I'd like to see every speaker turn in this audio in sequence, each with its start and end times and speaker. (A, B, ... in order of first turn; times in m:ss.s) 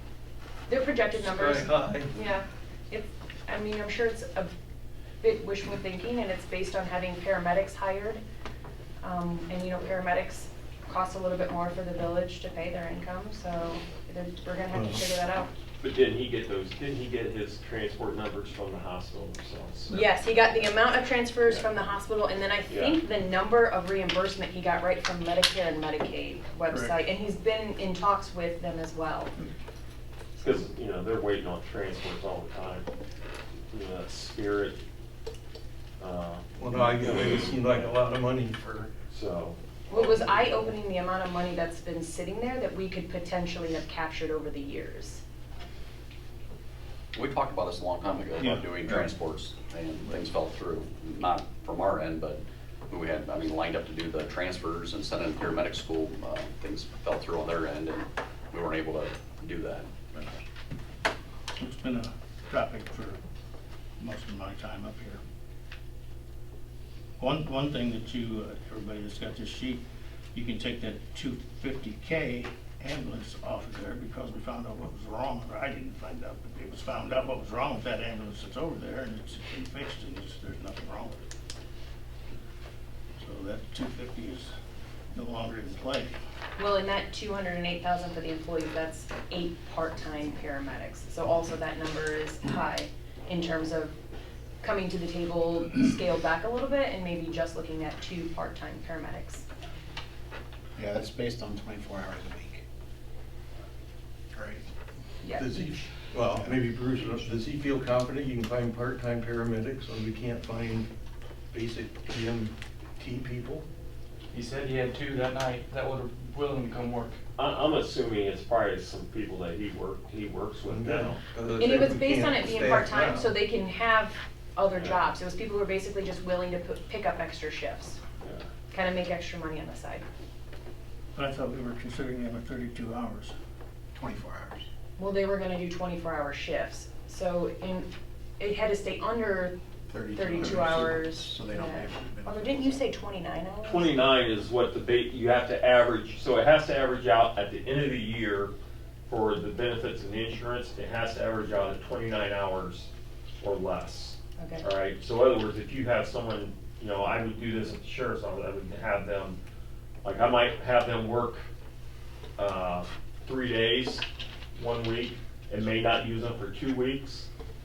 0:00.7-0:04.5 A
0:01.2-0:02.1 B
0:05.2-0:08.2 A
0:09.0-0:15.5 A
0:14.7-0:15.0 B
0:15.8-0:20.3 C
0:19.9-0:29.3 A
0:22.7-0:23.0 C
0:30.4-0:32.9 C
0:33.7-0:34.8 C
0:36.0-0:37.9 C
0:36.6-0:38.8 B
0:39.0-0:40.5 C
0:39.9-0:45.2 A
0:47.1-1:00.4 D
0:48.4-0:48.9 E
1:01.6-1:03.2 E
1:04.0-1:05.2 E
1:07.2-1:09.8 E
1:10.3-1:21.2 E
1:23.2-1:24.5 E
1:25.1-1:26.2 E
1:26.6-1:33.9 A
1:34.6-1:39.4 A
1:40.8-1:42.6 F
1:44.4-1:44.6 F
1:45.2-1:45.8 A
1:45.4-1:50.9 B
1:51.5-1:53.6 B
1:54.3-1:57.2 G
1:57.4-2:01.2 C
2:00.6-2:03.3 B
2:01.6-2:08.0 A
2:08.2-2:08.4 C
2:08.7-2:10.0 A
2:11.2-2:13.3 E
2:14.0-2:14.6 F
2:15.0-2:17.9 A
2:18.4-2:19.6 A
2:19.9-2:22.8 F
2:20.2-2:24.0 A
2:23.6-2:28.5 C
2:29.1-2:32.9 C
2:33.4-2:39.4 C
2:34.4-2:34.6 A
2:40.0-2:41.4 C
2:42.4-2:44.0 C
2:44.6-2:47.3 C